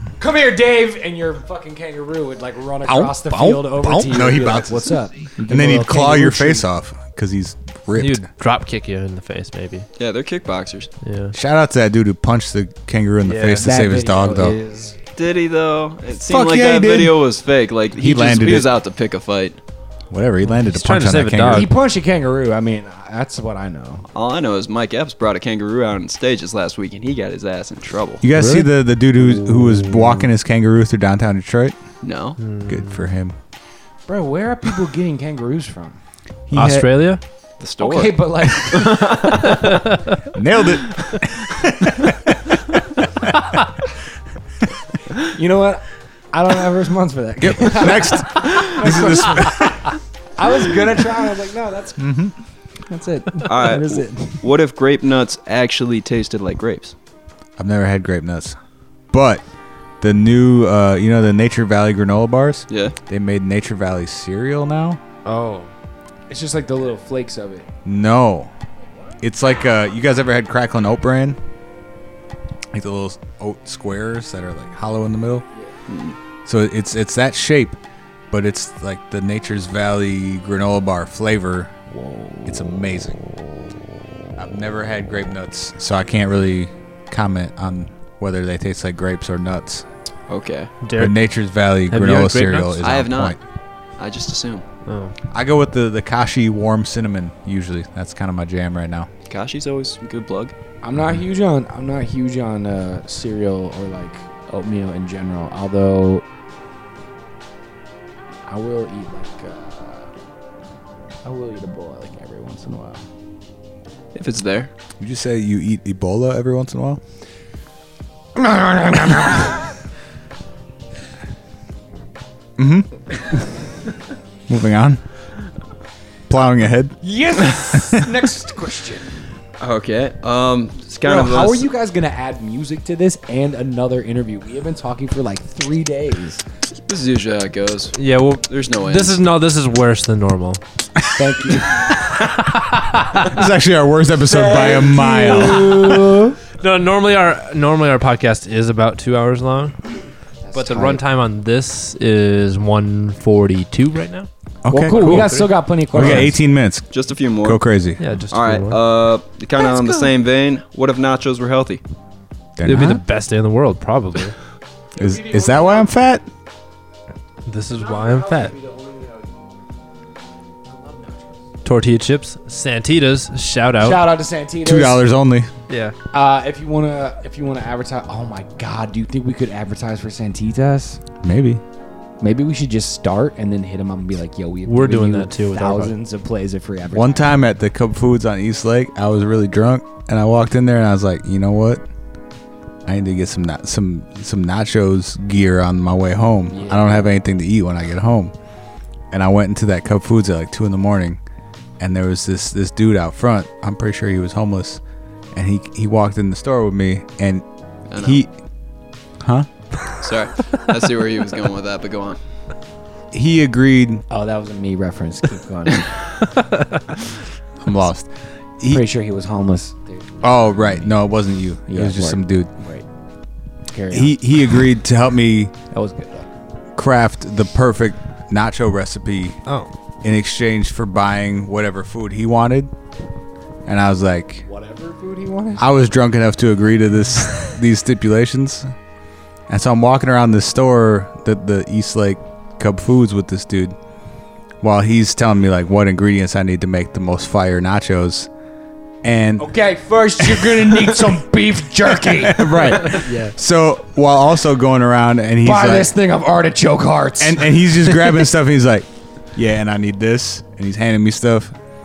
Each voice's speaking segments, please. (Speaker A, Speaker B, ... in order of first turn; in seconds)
Speaker A: 0.2-6.7, 13.6-14.9, 21.5-24.1, 34.1-36.0, 37.8-39.2, 45.3-49.8, 50.4-52.1, 52.9-54.4, 66.3-67.7, 100.8-106.2, 108.5-110.1, 111.2-113.0, 118.3-119.5, 127.0-129.1, 131.0-136.4, 141.2-141.7, 144.3-146.4, 150.4-151.0, 154.7-156.3, 165.1-165.9, 167.8-169.3, 170.7-171.3, 173.8-175.0, 176.1-181.0, 182.2-187.3, 196.5-197.1, 214.1-215.9, 218.7-221.0, 221.7-222.8, 223.7-224.2, 225.7-226.3, 234.5-235.7, 249.4-253.3, 255.4-258.2
Speaker B: 2.9-8.3, 11.3-14.6, 16.2-17.2, 17.9-18.7, 20.1-21.7, 28.2-31.8, 32.6-33.3, 36.5-37.1, 40.3-42.5, 47.4-49.9, 52.0-52.3, 57.6-58.5, 59.1-59.4, 60.0-65.0, 67.8-68.5, 69.2-71.4, 72.7-75.5, 76.5-77.8, 78.3-81.7, 82.4-83.2, 84.4-89.8, 90.9-93.4, 95.3-99.1, 115.0-117.0, 122.6-123.4, 124.5-125.0, 126.3-127.0, 143.2-146.1, 154.6-158.0, 162.6-163.0, 165.0-166.3, 174.6-175.5, 181.2-181.6, 186.9-191.8, 192.8-198.3, 199.1-201.2, 201.8-204.8, 205.3-207.4, 207.9-208.3, 209.2-209.5, 213.1-214.0, 217.6-218.8, 220.2-222.5, 223.9-225.5, 226.7-229.4, 230.0-232.7, 233.7-234.4, 235.6-238.7, 239.5-243.8, 244.6-248.3, 249.0-249.5, 250.2-250.9, 252.0-255.9, 257.2-261.5
Speaker C: 7.9-9.9, 11.0-11.3, 13.2-13.7, 20.5-21.7, 28.3-28.7, 32.4-33.0, 36.5-37.2, 39.7-40.0, 65.3-65.7, 90.8-91.2, 91.9-92.8, 94.8-95.1, 137.9-140.6, 142.6-143.1, 146.6-149.8, 150.5-154.3, 154.8-156.3, 158.0-158.8, 162.6-164.3, 167.4-168.6, 171.6-174.1, 175.7-175.9, 184.7-185.9
Speaker D: 10.0-10.9, 15.2-19.6, 24.1-28.2, 32.0-32.4, 37.6-39.5, 53.5-56.9, 62.7-62.9, 75.9-76.2, 90.3-90.7, 92.8-93.4, 94.0-94.6, 99.3-100.5, 114.1-114.7, 129.6-131.7, 136.9-139.2, 156.9-157.6, 158.3-161.8, 207.9-208.2, 210.0-212.2